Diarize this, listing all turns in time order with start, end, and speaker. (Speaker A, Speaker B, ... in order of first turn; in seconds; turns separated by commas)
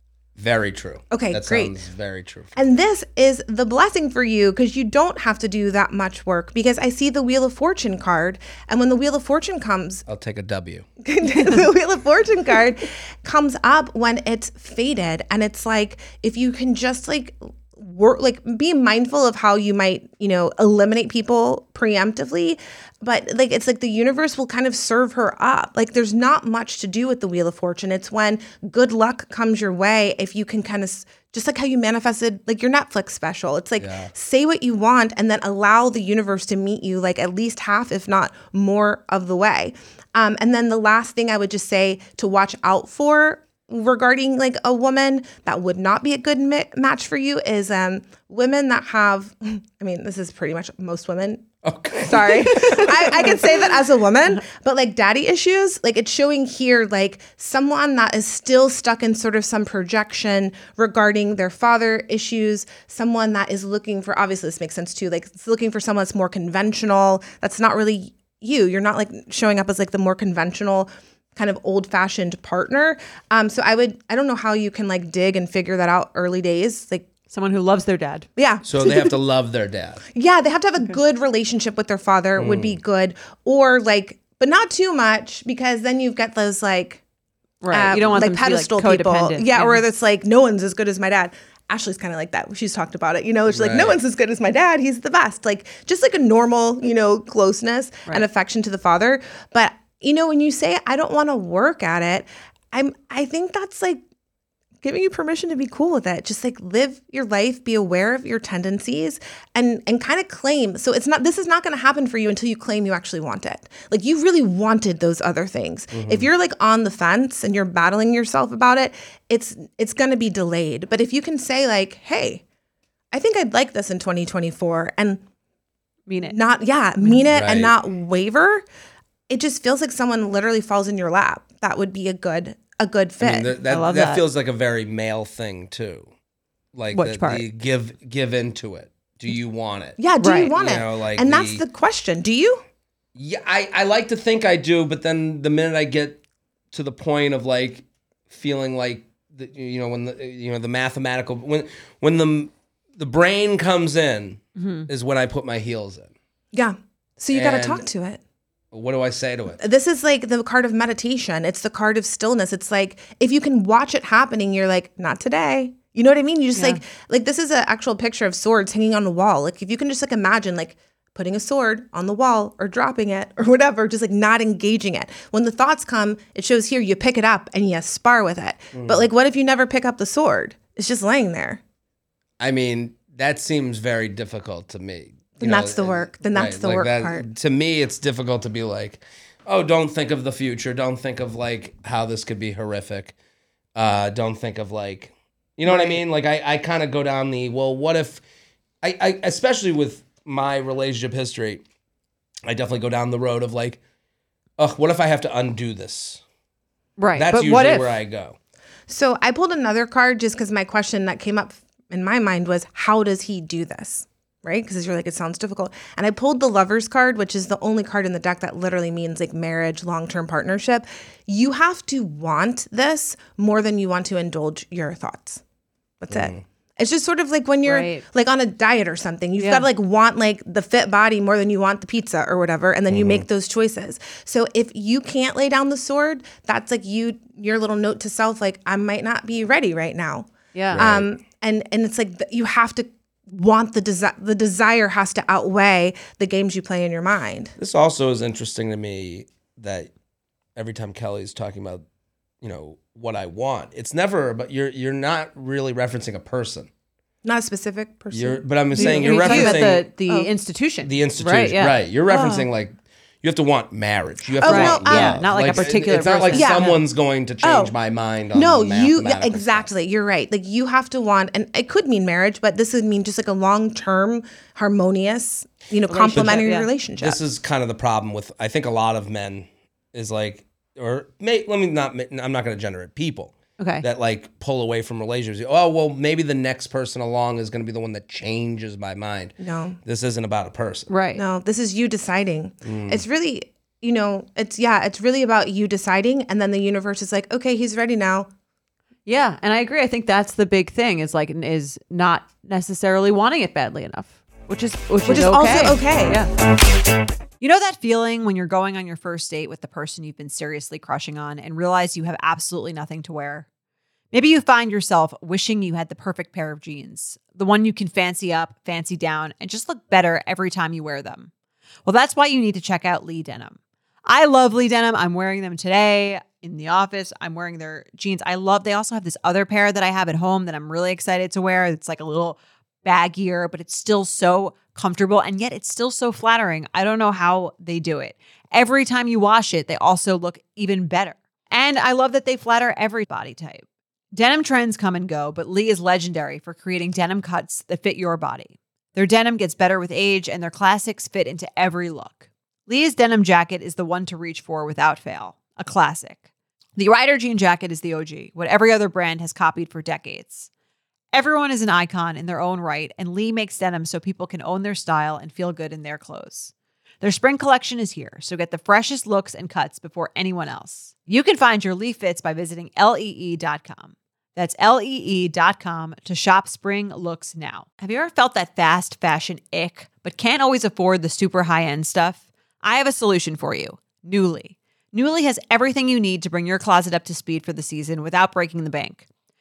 Speaker A: 0.4-2.6, Speaker B: 1.1-1.7, Speaker B: 2.5-10.1, Speaker A: 10.1-10.9, Speaker B: 11.0-77.1, Speaker A: 33.8-34.1, Speaker A: 51.6-52.9, Speaker C: 52.6-52.9, Speaker C: 77.3-78.3, Speaker B: 78.4-79.1, Speaker A: 78.6-80.0, Speaker B: 80.1-87.0, Speaker A: 82.4-82.8, Speaker C: 87.6-89.8, Speaker B: 87.7-104.0, Speaker A: 93.5-94.0, Speaker B: 104.8-122.4, Speaker A: 115.9-116.3, Speaker B: 123.1-125.2, Speaker C: 126.1-126.4, Speaker B: 126.3-128.6, Speaker A: 127.3-127.7, Speaker B: 129.3-133.5, Speaker A: 133.2-136.1, Speaker C: 133.7-134.2, Speaker A: 136.7-140.0, Speaker C: 136.9-137.4, Speaker B: 140.0-142.6, Speaker C: 140.2-140.5, Speaker A: 140.6-141.6, Speaker A: 143.1-146.2, Speaker A: 146.7-156.1, Speaker C: 154.6-154.9, Speaker B: 156.5-158.2, Speaker A: 157.3-157.8, Speaker A: 158.7-159.6, Speaker B: 159.6-181.6, Speaker C: 166.6-166.8, Speaker A: 178.7-179.1, Speaker A: 182.4-193.1, Speaker B: 185.4-187.2, Speaker A: 193.7-198.2, Speaker A: 198.8-201.6, Speaker A: 202.5-203.8, Speaker A: 204.6-206.2, Speaker C: 207.0-207.9, Speaker A: 207.2-208.3, Speaker B: 208.9-225.4, Speaker B: 226.0-247.5, Speaker A: 226.1-226.4, Speaker C: 227.6-228.0, Speaker C: 229.4-229.7, Speaker A: 232.9-233.2, Speaker C: 240.5-240.8, Speaker A: 240.7-241.1, Speaker A: 247.6-249.9, Speaker A: 250.6-251.8, Speaker A: 252.4-256.7, Speaker B: 257.2-260.3, Speaker A: 258.1-259.8, Speaker C: 258.8-261.8, Speaker A: 260.8-269.7, Speaker B: 262.1-262.5, Speaker B: 264.4-265.2, Speaker C: 264.4-266.8, Speaker B: 266.3-266.7, Speaker B: 267.4-267.7, Speaker B: 268.3-277.2, Speaker C: 275.9-276.7, Speaker A: 276.1-276.4, Speaker A: 277.0-290.9, Speaker C: 283.6-283.8, Speaker B: 289.4-289.8, Speaker C: 290.9-291.2, Speaker B: 291.1-298.3, Speaker A: 292.6-293.0, Speaker C: 299.1-306.3, Speaker B: 305.1-306.2, Speaker C: 307.4-313.5, Speaker C: 314.1-321.3, Speaker C: 321.9-356.2, Speaker C: 356.8-360.5, Speaker C: 361.1-389.0